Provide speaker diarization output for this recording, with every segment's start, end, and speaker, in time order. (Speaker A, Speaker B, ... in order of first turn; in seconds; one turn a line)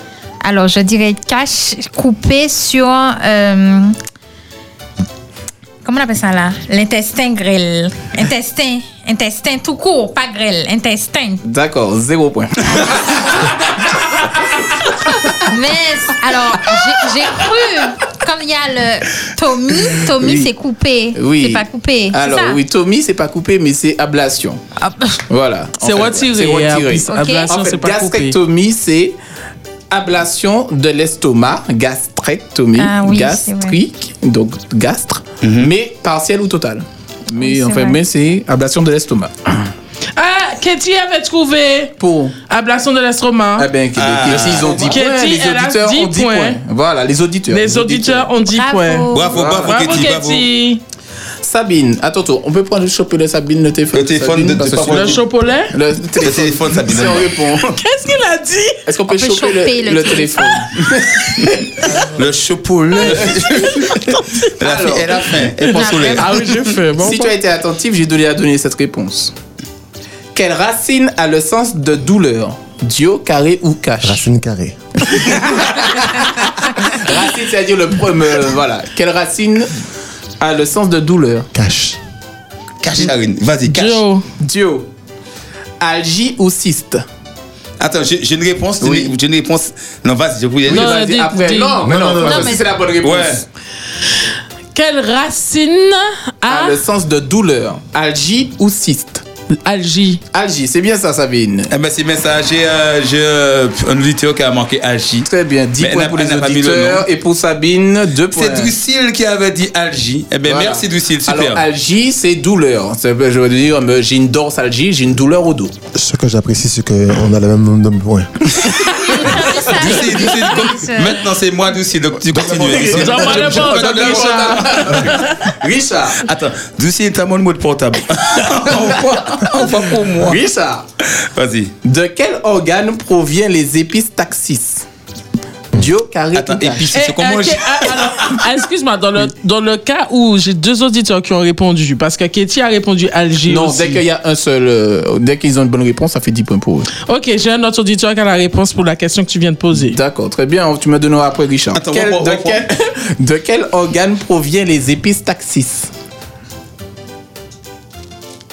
Speaker A: 0.4-4.0
Speaker A: 5.8-11.4
Speaker B: 11.4-13.5
Speaker A: 15.4-22.6
Speaker B: 20.0-20.5
Speaker B: 21.1-24.6
Speaker A: 24.8-25.1
Speaker B: 25.3-29.2
Speaker C: 25.8-28.4
Speaker A: 27.1-27.5
Speaker B: 29.9-39.7
Speaker A: 32.8-33.8
Speaker D: 35.4-35.7
Speaker A: 37.4-38.0
Speaker C: 40.2-43.7
Speaker B: 42.0-42.4
Speaker B: 43.6-48.3
Speaker D: 44.0-45.0
Speaker C: 44.8-46.6
Speaker C: 47.5-50.8
Speaker A: 48.5-49.5
Speaker D: 49.1-50.5
Speaker B: 49.3-49.8
Speaker B: 51.4-57.8
Speaker D: 53.9-55.2
Speaker C: 54.9-55.7
Speaker D: 56.2-57.3
Speaker C: 57.8-58.8
Speaker B: 58.9-61.6
Speaker A: 59.1-60.6
Speaker D: 62.1-66.8
Speaker B: 63.0-63.7
Speaker B: 64.6-65.3
Speaker A: 65.7-66.3
Speaker C: 66.2-67.3
Speaker B: 67.0-69.3
Speaker B: 70.3-74.3
Speaker E: 74.0-74.8
Speaker B: 75.5-79.7
Speaker B: 80.4-81.5
Speaker E: 81.5-82.0
Speaker D: 82.8-84.0
Speaker C: 83.7-84.3
Speaker B: 84.4-84.9
Speaker B: 85.8-87.0
Speaker D: 87.8-91.0
Speaker B: 88.8-89.2
Speaker B: 90.7-93.4
Speaker C: 90.7-91.9
Speaker E: 91.8-92.6
Speaker A: 92.2-92.7
Speaker D: 93.0-93.4
Speaker C: 94.7-96.8
Speaker B: 96.5-99.3
Speaker C: 99.6-100.2
Speaker B: 100.3-101.7
Speaker D: 101.7-107.1
Speaker B: 105.2-108.8
Speaker D: 108.3-111.6
Speaker B: 110.5-115.8
Speaker E: 116.0-118.3
Speaker A: 118.8-121.2
Speaker D: 119.6-125.2
Speaker E: 122.3-123.7
Speaker B: 122.5-126.2
Speaker C: 122.8-125.4
Speaker D: 126.2-130.4
Speaker B: 128.7-130.9
Speaker D: 131.3-131.7
Speaker B: 131.8-134.8
Speaker B: 135.7-137.0
Speaker D: 136.3-138.4
Speaker C: 136.9-144.0
Speaker B: 143.5-146.9
Speaker C: 147.0-150.0
Speaker B: 149.8-155.9
Speaker D: 151.7-152.6